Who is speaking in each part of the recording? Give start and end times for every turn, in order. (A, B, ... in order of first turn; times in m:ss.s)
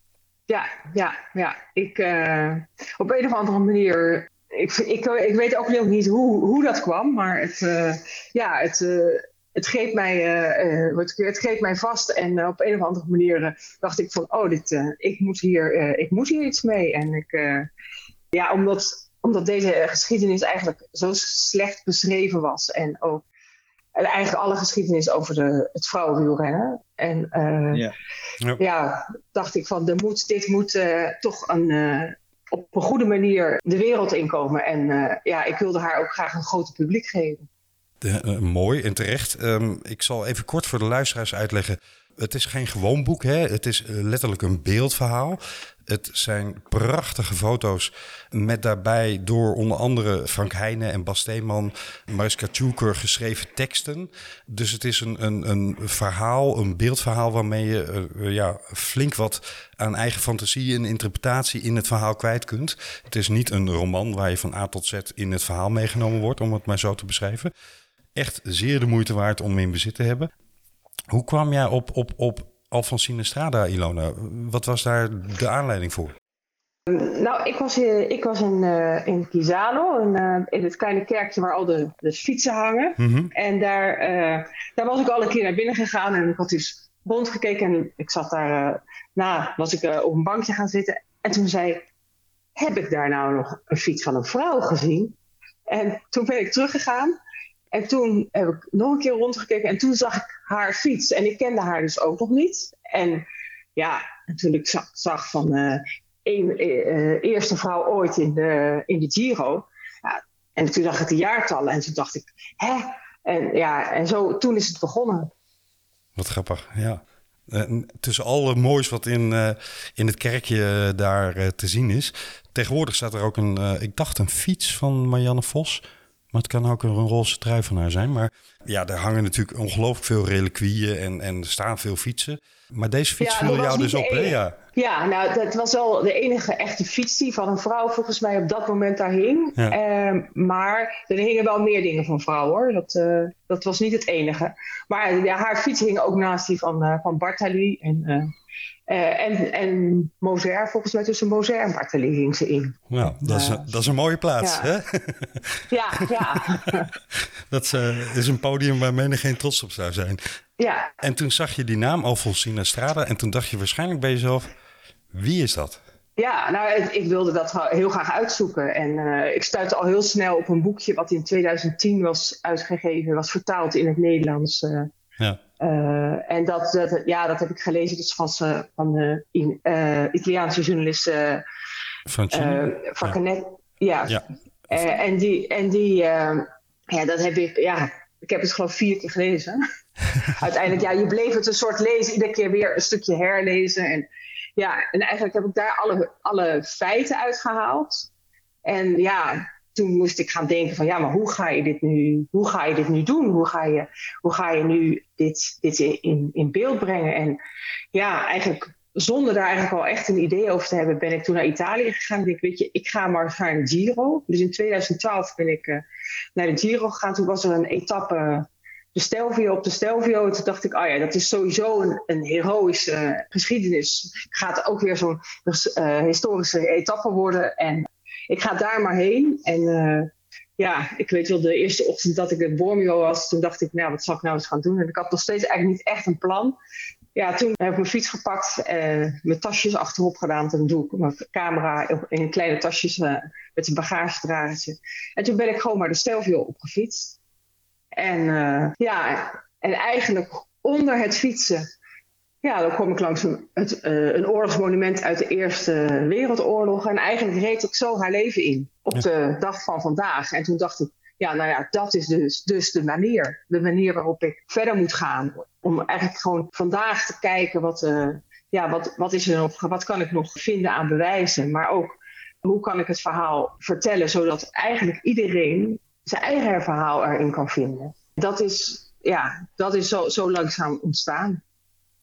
0:00.5-0:17.7 A
0:18.3-0:23.2 A
0:24.0-0:27.8 A
0:28.6-0:37.5 A
0:38.0-1:07.5 B
1:08.1-1:10.3 B
1:11.1-1:16.1 B
1:16.9-1:31.8 A
1:23.0-1:23.3 B
1:32.6-1:35.2 A
1:35.7-1:37.1 A
1:37.7-1:43.2 A
1:43.8-1:55.3 A
1:56.2-2:14.6 B
2:13.2-2:28.3 A
2:28.9-2:33.7 A
2:32.9-2:35.6 B
2:34.4-2:34.7 A
2:35.7-2:36.9 A
2:36.2-2:36.4 B
2:37.5-2:40.2 B
2:40.6-2:40.9 A
2:41.0-2:44.5 B
2:45.1-2:45.8 B
2:46.2-2:54.9 A
2:55.6-3:01.4 A
3:02.1-3:03.1 B
3:02.3-3:04.2 A
3:04.7-3:09.6 A
3:10.2-3:14.0 A
3:14.6-3:18.1 A
3:18.6-3:27.4 A
3:27.9-3:35.8 A
3:36.3-3:56.6 A
3:57.1-4:07.2 A
4:07.9-4:11.6 A
4:12.4-4:41.4 A